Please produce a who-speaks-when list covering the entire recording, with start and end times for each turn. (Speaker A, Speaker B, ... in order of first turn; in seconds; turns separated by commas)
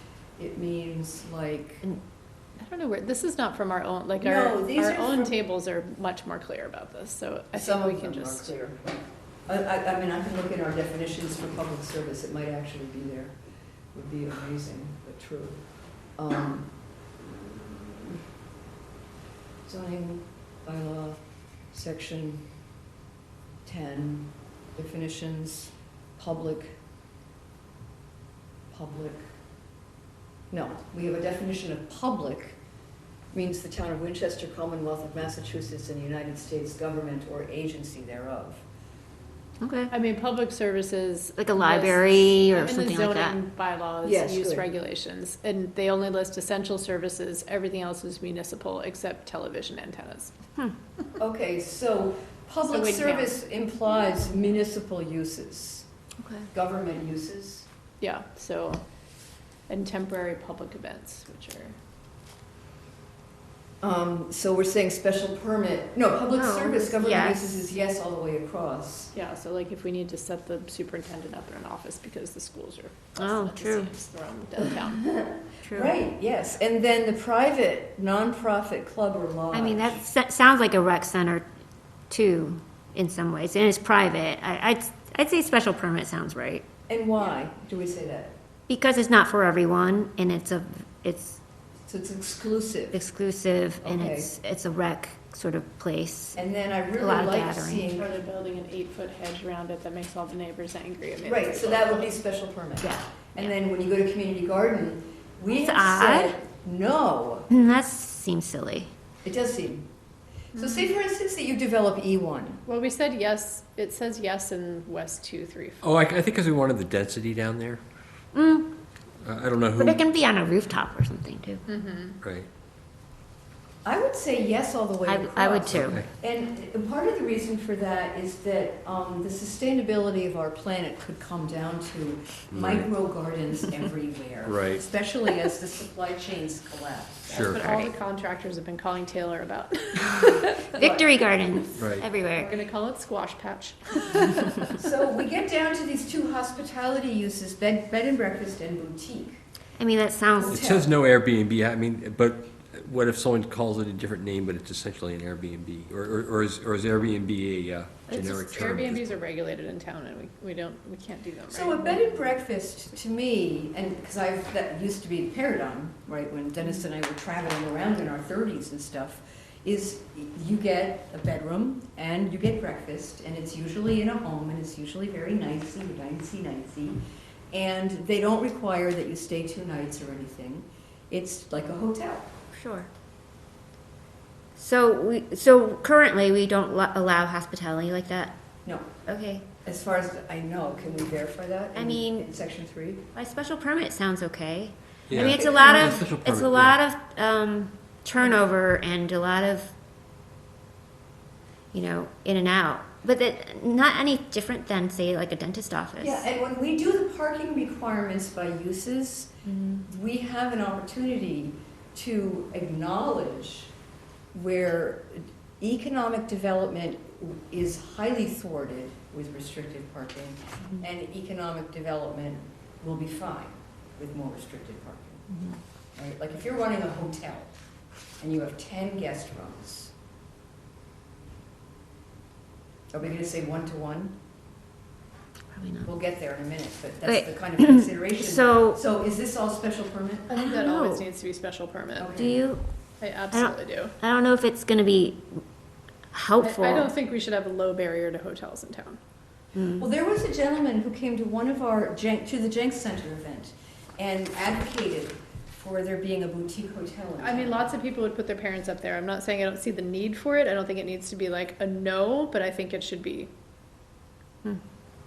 Speaker A: 0.4-1.9, Speaker B: 2.6-8.5, Speaker A: 4.2-5.3, Speaker A: 7.5-8.8, Speaker A: 9.5-13.3, Speaker A: 13.9-15.6, Speaker A: 16.2-16.7, Speaker A: 17.5-18.2, Speaker A: 19.6-21.2, Speaker A: 21.7-22.5, Speaker A: 23.6-26.8, Speaker A: 28.7-29.2, Speaker A: 30.5-32.6, Speaker A: 33.3-38.6, Speaker C: 39.6-39.9, Speaker B: 39.9-50.3, Speaker C: 41.4-43.4, Speaker A: 44.0-44.6, Speaker A: 51.2-55.9, Speaker B: 52.7-53.3, Speaker C: 56.2-56.5, Speaker A: 56.5-57.7, Speaker B: 58.0-58.8, Speaker B: 59.7-61.7, Speaker A: 63.8-69.1, Speaker C: 66.3-67.4, Speaker B: 69.1-75.1, Speaker C: 73.2-73.9, Speaker A: 75.1-80.0, Speaker C: 75.6-75.9, Speaker C: 79.5-81.5, Speaker C: 82.1-86.7, Speaker A: 86.9-88.3, Speaker C: 88.7-91.4, Speaker A: 91.9-93.0, Speaker C: 92.9-96.4, Speaker A: 93.8-94.3, Speaker A: 96.3-98.2, Speaker C: 97.0-97.9, Speaker B: 97.9-102.1, Speaker A: 101.2-107.5, Speaker C: 102.8-103.5, Speaker C: 105.5-106.3, Speaker C: 107.5-108.9, Speaker A: 109.2-109.9, Speaker B: 110.5-110.9, Speaker A: 110.5-112.6, Speaker B: 112.7-115.8, Speaker D: 115.8-117.8, Speaker C: 118.3-118.7, Speaker D: 119.2-120.0, Speaker C: 119.8-121.6, Speaker B: 121.7-122.2, Speaker D: 122.2-122.5, Speaker A: 123.8-137.3, Speaker C: 125.0-126.0, Speaker D: 125.8-126.0, Speaker D: 132.5-132.9, Speaker D: 134.4-134.8, Speaker D: 137.3-137.6, Speaker B: 137.3-140.9, Speaker C: 137.6-137.9, Speaker A: 140.7-141.1, Speaker C: 140.8-142.5, Speaker D: 141.8-142.1, Speaker B: 142.3-144.8, Speaker A: 144.7-149.4, Speaker C: 149.8-150.6, Speaker A: 150.4-150.9, Speaker D: 150.5-159.2, Speaker B: 158.1-162.0, Speaker A: 161.5-177.0, Speaker A: 177.5-182.3, Speaker C: 182.5-182.9, Speaker C: 184.6-188.4, Speaker C: 189.1-189.5, Speaker A: 189.6-193.0, Speaker C: 191.7-192.3, Speaker C: 193.1-199.7, Speaker D: 195.1-196.8, Speaker A: 195.2-196.0, Speaker C: 201.7-206.2, Speaker A: 206.0-213.7, Speaker C: 209.4-209.8, Speaker A: 214.3-225.3, Speaker A: 225.9-227.5, Speaker A: 228.2-229.9, Speaker A: 232.9-234.2, Speaker C: 235.5-235.9, Speaker A: 235.8-240.3, Speaker C: 237.0-238.8, Speaker C: 240.3-241.0, Speaker B: 240.3-242.2, Speaker A: 242.0-242.4, Speaker C: 242.2-242.6, Speaker B: 243.0-243.9, Speaker C: 243.3-245.4, Speaker C: 246.1-246.9, Speaker B: 246.4-249.0, Speaker C: 249.5-249.9, Speaker A: 249.8-257.7, Speaker B: 257.2-263.3